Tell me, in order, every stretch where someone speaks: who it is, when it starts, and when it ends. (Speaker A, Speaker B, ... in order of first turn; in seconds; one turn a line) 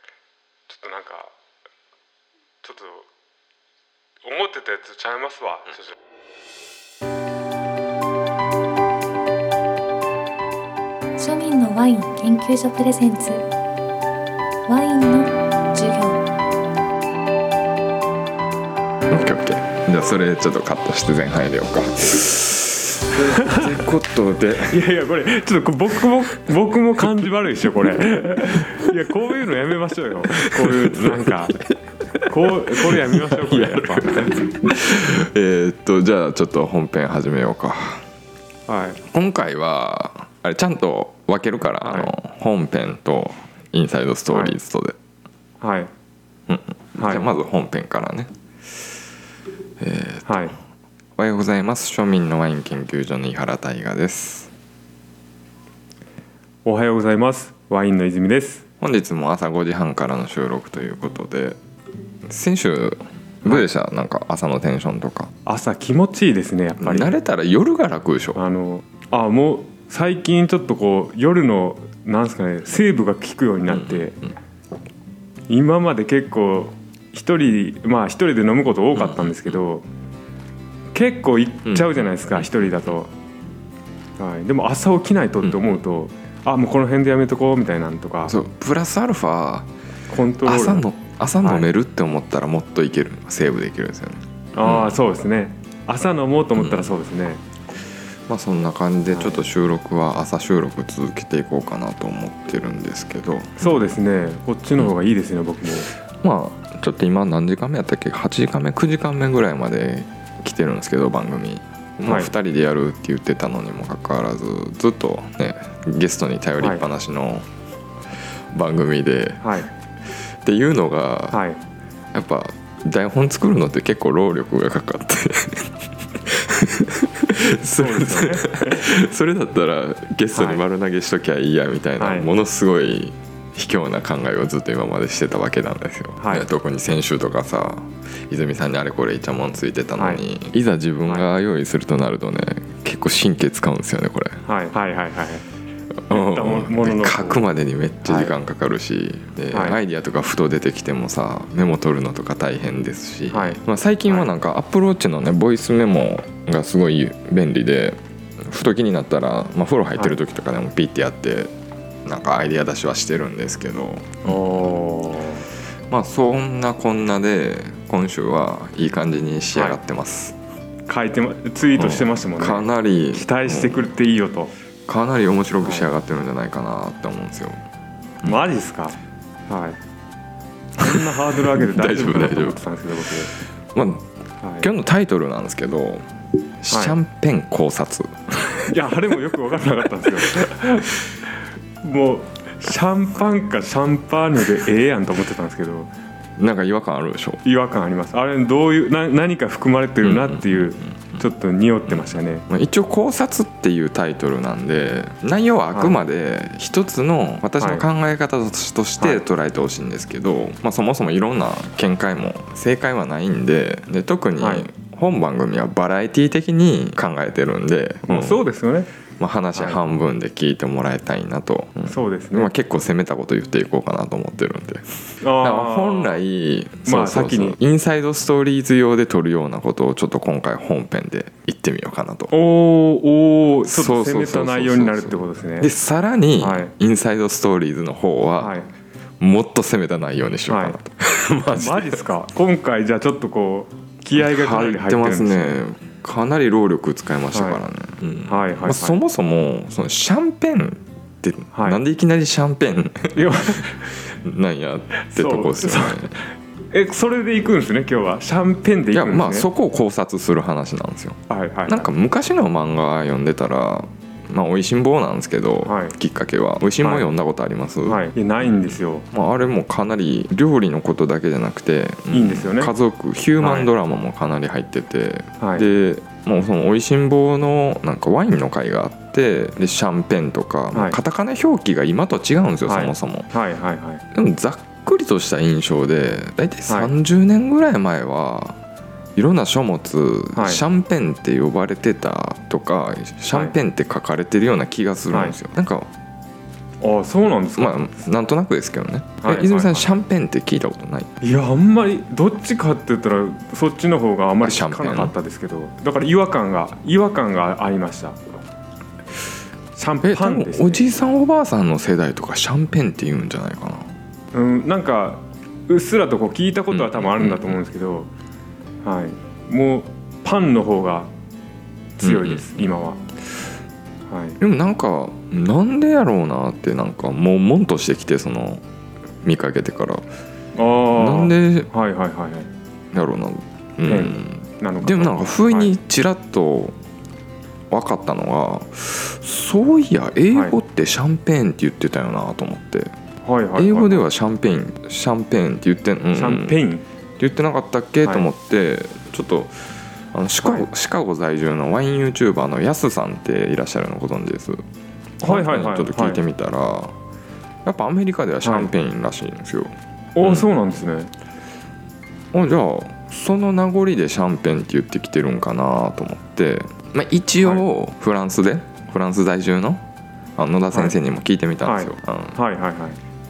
Speaker A: 0.7-1.3
Speaker A: 2.6-3.1
Speaker A: 4.2-5.9
Speaker B: 11.2-13.5
Speaker B: 14.7-16.3
Speaker C: 19.1-24.8
Speaker A: 23.3-23.7
Speaker A: 24.7-31.6
Speaker C: 30.3-38.0
Speaker A: 32.2-34.3
Speaker A: 38.7-39.0
Speaker C: 39.0-45.0
Speaker A: 41.8-42.1
Speaker A: 44.3-44.6
Speaker A: 45.6-45.9
Speaker C: 46.5-48.9
Speaker A: 47.0-47.2
Speaker C: 49.8-50.3
Speaker A: 50.2-50.5
Speaker C: 51.2-54.5
Speaker A: 56.6-58.6
Speaker C: 58.8-61.6
Speaker C: 62.2-65.3
Speaker A: 65.4-67.2
Speaker C: 66.8-68.4
Speaker A: 68.3-74.2
Speaker C: 73.7-74.1
Speaker A: 75.5-79.8
Speaker C: 79.0-79.3
Speaker A: 80.9-83.1
Speaker C: 81.7-82.5
Speaker A: 84.2-88.3
Speaker C: 88.3-89.7
Speaker A: 90.1-90.8
Speaker C: 90.4-95.0
Speaker A: 91.4-91.7
Speaker A: 94.5-97.4
Speaker C: 96.6-97.0
Speaker C: 98.3-103.7
Speaker A: 99.1-99.4
Speaker A: 103.6-105.9
Speaker C: 106.2-117.5
Speaker A: 112.0-112.3
Speaker C: 118.5-119.4
Speaker A: 119.4-119.7
Speaker C: 120.1-121.4
Speaker A: 121.3-121.6
Speaker C: 122.1-144.4
Speaker A: 127.7-128.8
Speaker A: 130.3-130.6
Speaker A: 132.0-132.3
Speaker A: 136.2-136.5
Speaker A: 140.0-140.2
Speaker A: 144.4-145.4
Speaker C: 146.1-161.5
Speaker A: 146.1-147.4
Speaker A: 148.0-148.3
Speaker A: 149.5-149.8
Speaker A: 153.3-154.3
Speaker C: 162.0-164.4
Speaker A: 164.2-165.4
Speaker C: 165.9-170.4
Speaker A: 170.9-174.5
Speaker C: 171.8-173.9
Speaker C: 174.9-177.6
Speaker A: 175.6-175.9
Speaker A: 178.2-179.0
Speaker A: 179.5-179.8
Speaker A: 180.8-183.3
Speaker C: 180.8-182.6
Speaker C: 183.7-184.1
Speaker A: 184.4-184.7
Speaker C: 184.6-186.0
Speaker C: 186.6-188.7
Speaker A: 186.7-187.0
Speaker A: 188.7-191.0
Speaker A: 191.8-195.9
Speaker C: 196.4-197.4
Speaker A: 197.4-202.4
Speaker C: 200.0-200.7
Speaker C: 201.9-218.4
Speaker A: 207.6-207.8
Speaker A: 214.4-214.7
Speaker A: 218.0-218.9
Speaker C: 219.2-232.3
Speaker A: 219.5-219.8
Speaker A: 221.8-222.5
Speaker A: 225.2-226.2
Speaker A: 226.8-227.6
Speaker A: 232.3-235.7
Speaker C: 233.7-238.6
Speaker A: 236.4-236.7
Speaker A: 238.4-238.7
Speaker C: 239.2-242.0
Speaker A: 240.5-240.8
Speaker A: 241.5-245.6
Speaker C: 244.1-256.1
Speaker A: 247.3-247.6
Speaker A: 248.2-249.0
Speaker A: 251.5-251.8
Speaker A: 253.1-253.9
Speaker A: 255.0-259.5
Speaker C: 258.9-268.0
Speaker A: 261.3-261.9
Speaker A: 265.6-265.9
Speaker A: 266.8-267.2
Speaker A: 267.9-269.1
Speaker C: 269.1-283.3
Speaker A: 272.1-272.7
Speaker A: 273.4-273.7
Speaker A: 275.4-275.7
Speaker A: 280.7-281.0
Speaker A: 282.6-284.0
Speaker C: 284.1-288.6
Speaker C: 289.1-295.9
Speaker A: 290.3-290.6
Speaker A: 295.1-295.4
Speaker A: 296.8-297.9
Speaker C: 297.6-301.1
Speaker A: 299.2-299.9
Speaker A: 301.2-308.2
Speaker C: 304.4-305.1
Speaker A: 309.7-310.9
Speaker C: 310.0-313.9
Speaker A: 314.3-318.1
Speaker C: 316.7-317.6
Speaker A: 318.8-321.1
Speaker A: 322.0-323.0
Speaker C: 322.0-322.5
Speaker A: 324.1-324.4
Speaker C: 324.4-328.6
Speaker C: 329.2-330.0
Speaker A: 330.6-332.5
Speaker C: 330.9-331.7
Speaker C: 332.9-336.8
Speaker A: 333.9-335.7
Speaker C: 337.7-342.9
Speaker A: 343.2-344.1
Speaker C: 343.6-346.6
Speaker A: 346.1-346.8
Speaker C: 347.2-349.5
Speaker C: 350.1-354.6
Speaker A: 355.2-356.2
Speaker C: 355.2-356.9
Speaker C: 357.6-360.4
Speaker A: 358.4-358.7
Speaker A: 360.1-361.1
Speaker C: 362.3-369.8
Speaker C: 370.4-372.4
Speaker A: 371.6-373.0